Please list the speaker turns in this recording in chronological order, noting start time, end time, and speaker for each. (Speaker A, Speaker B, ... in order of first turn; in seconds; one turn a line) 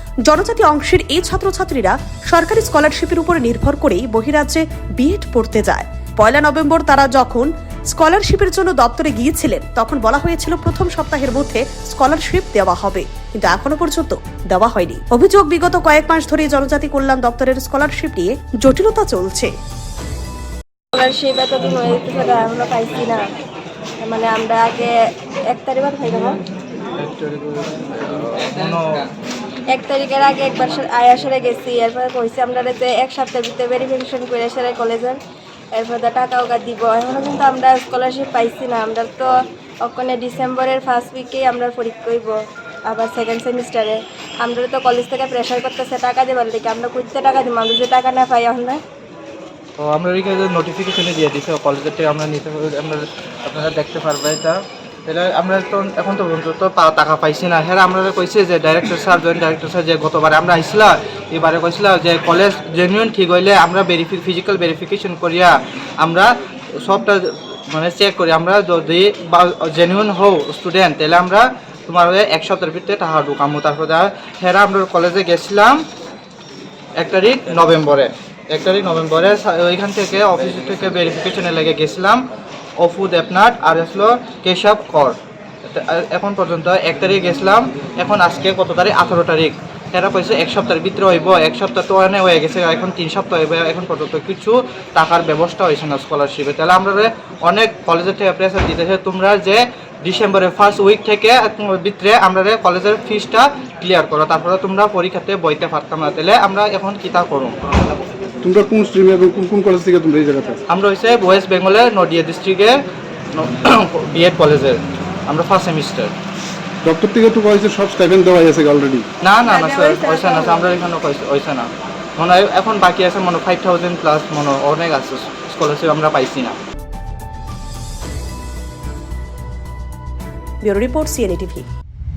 Speaker A: 0.3-19.5
Speaker B: 20.9-23.2
Speaker B: 24.0-24.9
Speaker B: 25.5-26.4
Speaker C: 27.0-29.1
Speaker B: 29.7-35.2
Speaker B: 35.7-42.3
Speaker B: 42.9-48.8
Speaker C: 49.8-75.8
Speaker C: 77.0-82.2
Speaker C: 82.8-107.6
Speaker D: 108.4-110.6
Speaker C: 110.7-112.8
Speaker C: 113.4-116.1
Speaker D: 116.8-119.0
Speaker C: 119.2-126.6
Speaker B: 119.5-120.7
Speaker A: 130.6-131.7